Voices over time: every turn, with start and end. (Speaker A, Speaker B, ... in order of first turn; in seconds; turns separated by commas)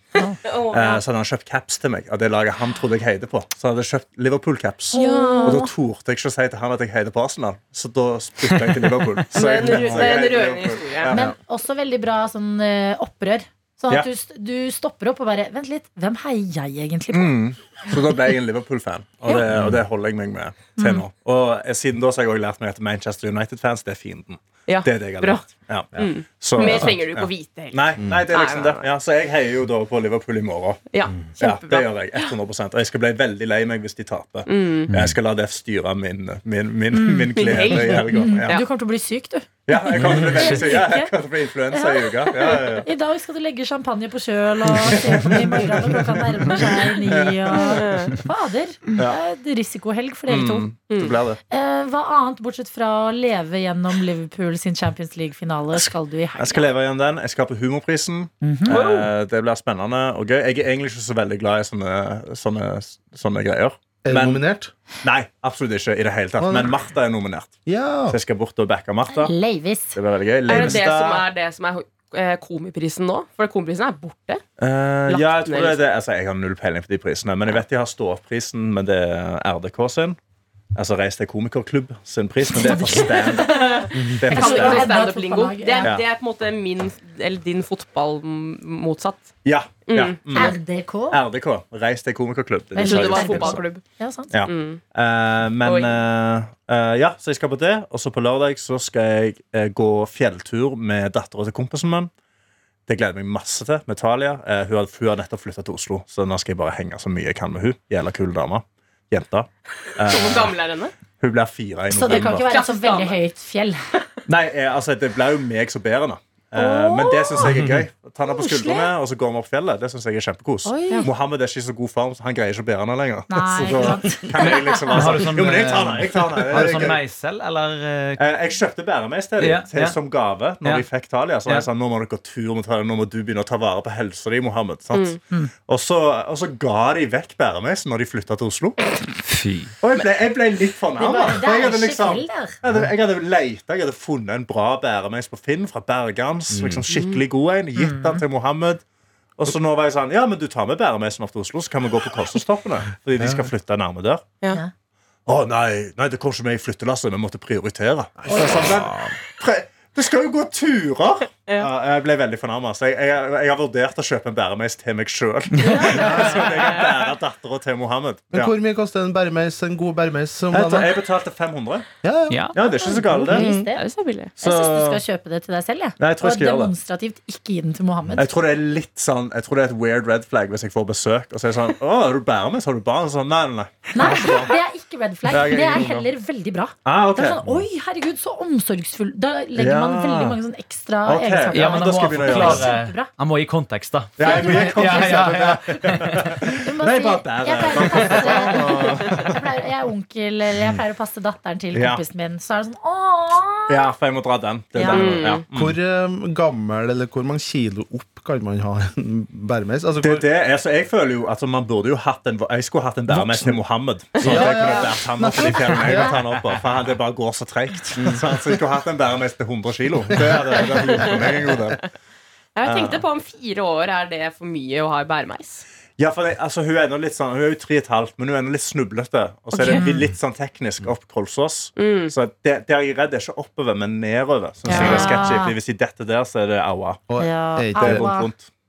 Speaker A: 0.4-1.0, Speaker B: 0.7-11.3, Speaker C: 4.9-5.7, Speaker A: 5.0-5.6, Speaker D: 8.7-9.2, Speaker A: 9.3-11.1, Speaker C: 11.1-17.4, Speaker B: 17.1-38.6, Speaker E: 19.5-19.8, Speaker C: 20.8-21.0, Speaker A: 24.7-28.9, Speaker E: 28.0-28.2, Speaker A: 30.9-32.3, Speaker A: 34.5-34.9, Speaker D: 34.9-35.2, Speaker C: 36.9-37.3, Speaker A: 37.3-38.7, Speaker C: 38.0-41.1, Speaker B: 39.7-42.9, Speaker C: 41.7-50.7, Speaker B: 44.8-47.9, Speaker A: 47.5-48.2, Speaker B: 50.3-51.4, Speaker A: 50.9-51.2, Speaker C: 51.5-56.7, Speaker B: 55.8-64.4, Speaker C: 58.4-58.8, Speaker E: 64.0-64.7, Speaker B: 65.0-67.6, Speaker E: 66.4-66.7, Speaker E: 67.7-68.2, Speaker B: 68.1-69.3, Speaker C: 69.1-70.0, Speaker B: 70.0-71.2, Speaker A: 70.5-74.4, Speaker B: 74.6-80.2, Speaker A: 75.1-75.8, Speaker B: 80.8-85.0, Speaker C: 82.5-86.0, Speaker A: 83.4-89.3, Speaker E: 84.0-84.2, Speaker B: 89.4-90.6, Speaker A: 89.8-90.5, Speaker C: 90.3-91.2, Speaker B: 91.1-93.6, Speaker C: 92.7-94.4, Speaker A: 92.8-93.8, Speaker B: 94.3-102.1, Speaker A: 94.5-94.8, Speaker A: 95.6-96.0, Speaker B: 102.9-110.6, Speaker A: 110.0-110.9, Speaker B: 111.2-112.5, Speaker C: 111.9-113.9, Speaker A: 112.0-113.2, Speaker B: 114.3-127.0, Speaker C: 116.5-117.5, Speaker D: 117.5-117.8, Speaker C: 118.3-118.9, Speaker C: 120.7-121.1, Speaker C: 123.3-124.9, Speaker D: 124.9-128.2, Speaker E: 126.5-127.0, Speaker B: 128.2-138.8, Speaker D: 129.4-130.0, Speaker A: 134.9-135.2, Speaker D: 139.2-139.7, Speaker B: 139.8-148.8, Speaker C: 141.0-142.6, Speaker E: 146.5-146.8, Speaker A: 146.9-147.2, Speaker C: 147.8-148.2, Speaker B: 149.4-154.3, Speaker E: 153.2-153.5, Speaker B: 155.3-168.5, Speaker E: 158.2-159.2, Speaker C: 158.3-158.7, Speaker C: 165.6-166.3, Speaker A: 165.7-166.9, Speaker E: 168.3-171.0, Speaker B: 170.5-171.9, Speaker E: 172.0-172.5, Speaker D: 172.3-172.6, Speaker B: 172.5-173.6, Speaker C: 172.6-173.8, Speaker E: 173.2-173.7, Speaker A: 173.6-174.4, Speaker C: 174.4-178.3, Speaker B: 174.4-175.0, Speaker B: 176.0-176.7, Speaker B: 178.2-184.6, Speaker C: 183.9-193.1, Speaker B: 185.3-186.1, Speaker B: 186.8-187.6, Speaker B: 189.6-190.4, Speaker B: 191.1-192.7, Speaker D: 191.5-196.4, Speaker B: 194.2-199.4, Speaker C: 194.2-195.2, Speaker C: 196.4-203.8, Speaker B: 201.7-202.0, Speaker B: 203.7-205.8, Speaker C: 204.8-205.2, Speaker A: 204.9-205.5, Speaker E: 205.5-210.3, Speaker B: 210.0-221.9, Speaker E: 213.1-213.6, Speaker A: 214.2-214.8, Speaker E: 214.2-216.2, Speaker A: 215.4-216.1, Speaker E: 218.0-218.2, Speaker E: 221.0-221.5, Speaker A: 222.6-225.7, Speaker B: 222.6-223.0, Speaker B: 226.0-237.0, Speaker A: 229.6-229.9, Speaker C: 229.6-230.1, Speaker A: 231.8-232.1, Speaker A: 234.7-235.3, Speaker C: 234.7-235.6, Speaker E: 237.1-238.1, Speaker C: 237.2-238.3, Speaker B: 237.8-238.5